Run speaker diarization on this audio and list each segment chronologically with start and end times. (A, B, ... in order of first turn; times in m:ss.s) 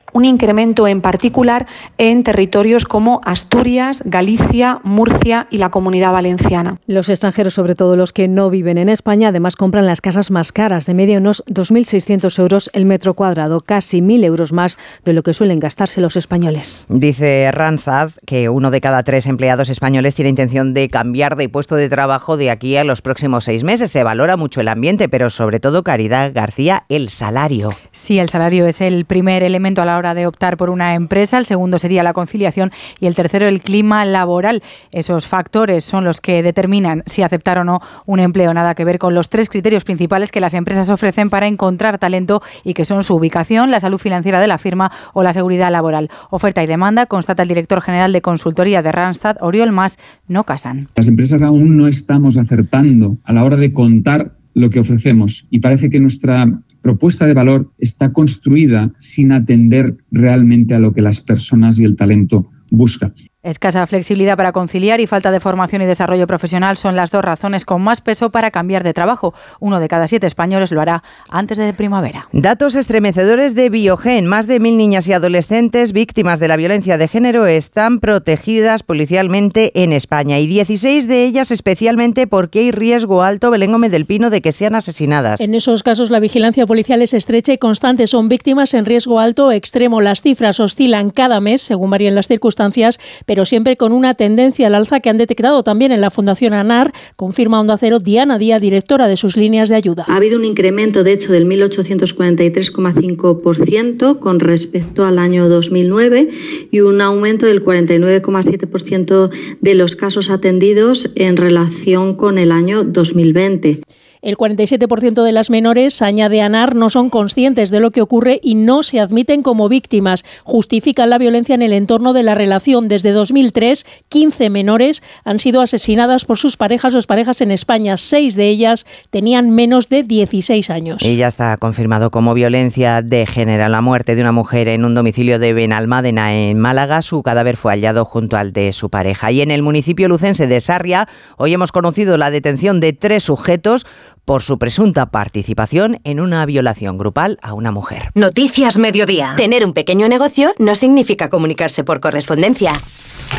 0:00.1-0:06.8 A
0:06.9-0:16.8 B
0:16.9-0:27.8 C
0:27.9-0:50.9 D
0:51.0-1:03.1 E
1:03.4-1:12.3 D
1:12.3-1:25.4 C
1:25.4-1:40.1 F
1:40.1-1:53.8 G
1:54.2-2:11.1 F
2:11.0-2:28.1 C
2:28.2-2:32.8 H